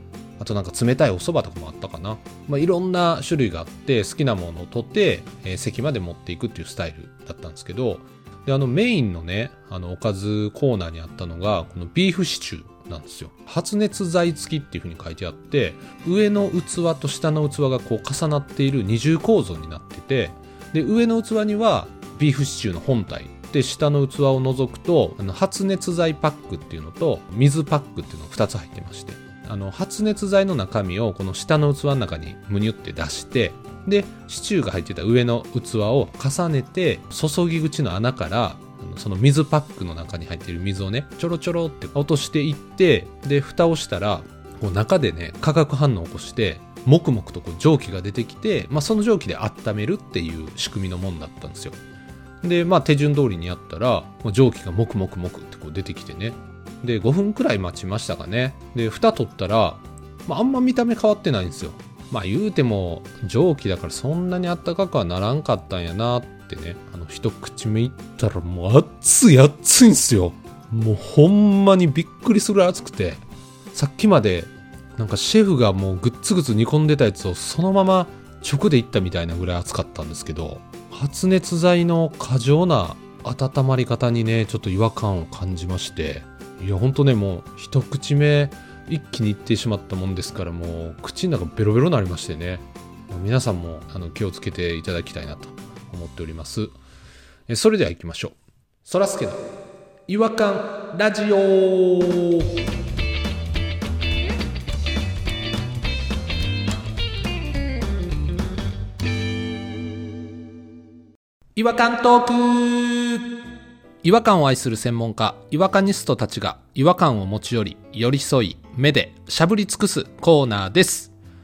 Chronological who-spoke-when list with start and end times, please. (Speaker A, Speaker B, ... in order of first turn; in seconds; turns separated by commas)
Speaker A: 0.4-51.8, Speaker A: 52.4-73.2, Speaker A: 73.7-96.7, Speaker A: 97.5-99.5, Speaker A: 100.1-102.5, Speaker A: 111.6-113.2, Speaker A: 114.0-121.1